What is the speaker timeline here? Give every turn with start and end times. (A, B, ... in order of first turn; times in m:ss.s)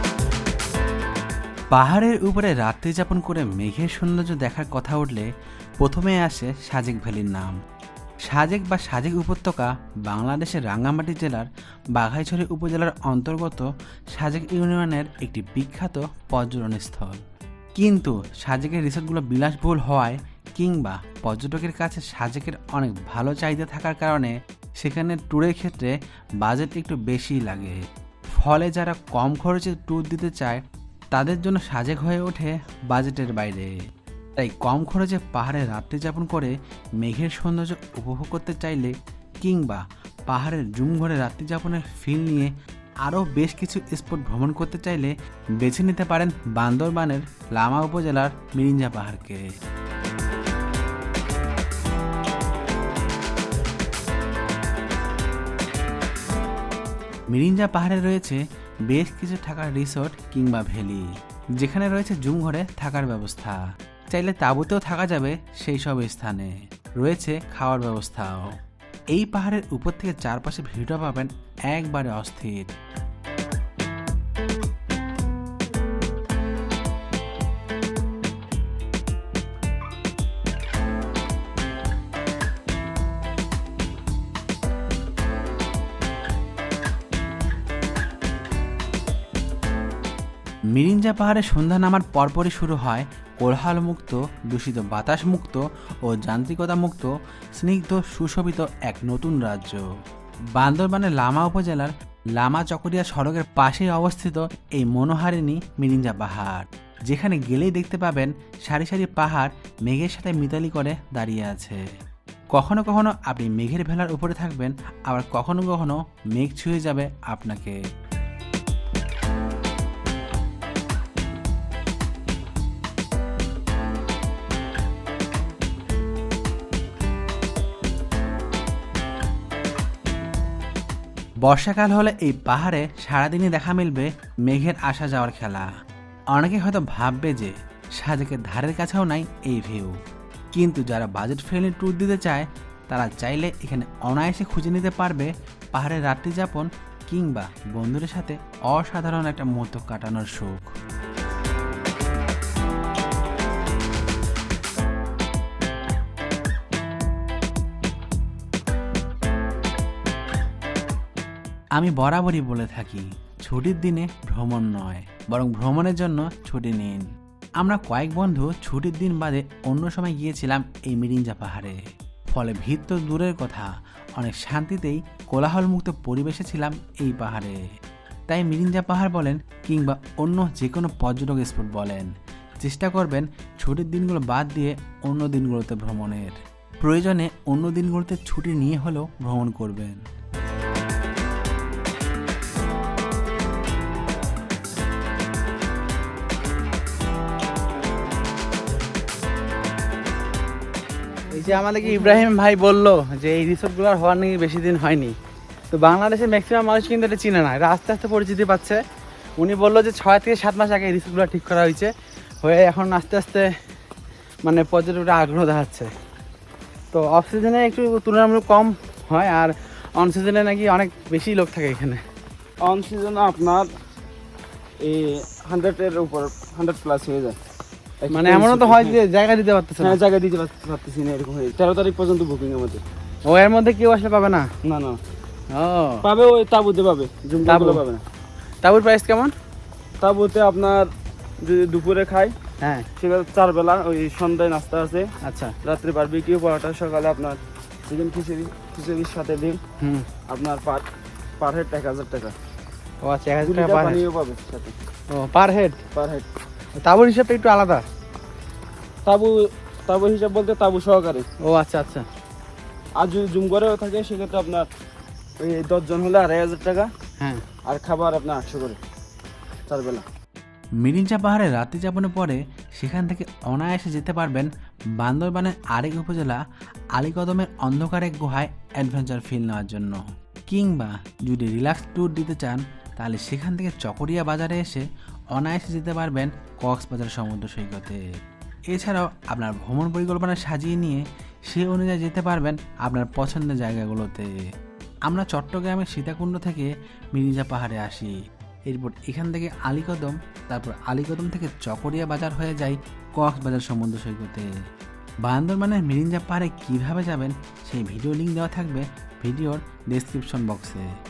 0:01.7-0:05.3 A
0:05.8-0:07.5 A
0:08.3-0:17.2 A
0:17.8-0:27.8 A
0:28.4-0:30.6 A
0:31.1-0:33.7 A
0:34.4-0:42.5 A
0:43.0-0:49.4 A
0:57.3-1:01.0 A
1:01.6-1:08.6 A
1:09.1-1:12.7 A
1:30.7-1:39.8 A
1:40.6-1:51.8 A
1:52.5-1:57.8 A
2:11.4-2:15.7 A
2:16.3-2:20.0 A
2:20.5-2:30.7 A
2:41.8-2:47.0 A
2:47.6-2:57.6 A
2:58.3-3:02.1 A
3:02.6-3:10.0 A
3:21.3-3:25.1 B
3:25.7-3:28.8 B
3:29.4-3:31.9 B
3:32.4-3:33.5 B
3:34.4-3:35.9 B
3:36.9-3:42.0 B
3:42.6-3:43.7 C
3:44.8-3:47.4 C
3:48.0-3:49.0 C
3:48.1-3:50.0 B
3:49.8-3:52.8 C
3:53.3-3:54.5 B
3:54.6-3:55.0 C
3:55.5-3:56.1 B
3:56.0-3:58.0 C
3:57.4-3:57.8 B
3:58.6-3:59.3 B
4:00.0-4:00.9 C
4:01.4-4:02.3 C
4:02.6-4:02.9 B
4:03.0-4:05.1 C
4:05.2-4:05.5 B
4:05.6-4:09.6 C
4:09.8-4:10.0 B
4:10.3-4:10.8 C
4:11.4-4:12.3 C
4:13.0-4:14.0 B
4:13.4-4:14.8 C
4:15.1-4:15.8 B
4:15.9-4:16.3 C
4:16.8-4:17.8 B
4:19.0-4:21.3 C
4:21.4-4:22.0 B
4:23.0-4:24.7 C
4:25.4-4:26.9 C
4:27.7-4:28.8 C
4:29.7-4:30.0 C
4:30.8-4:36.4 A
4:36.9-4:48.0 A
4:48.7-4:54.3 A
4:55.1-4:58.1 A
4:58.7-5:04.5 A
5:05.2-5:10.9 A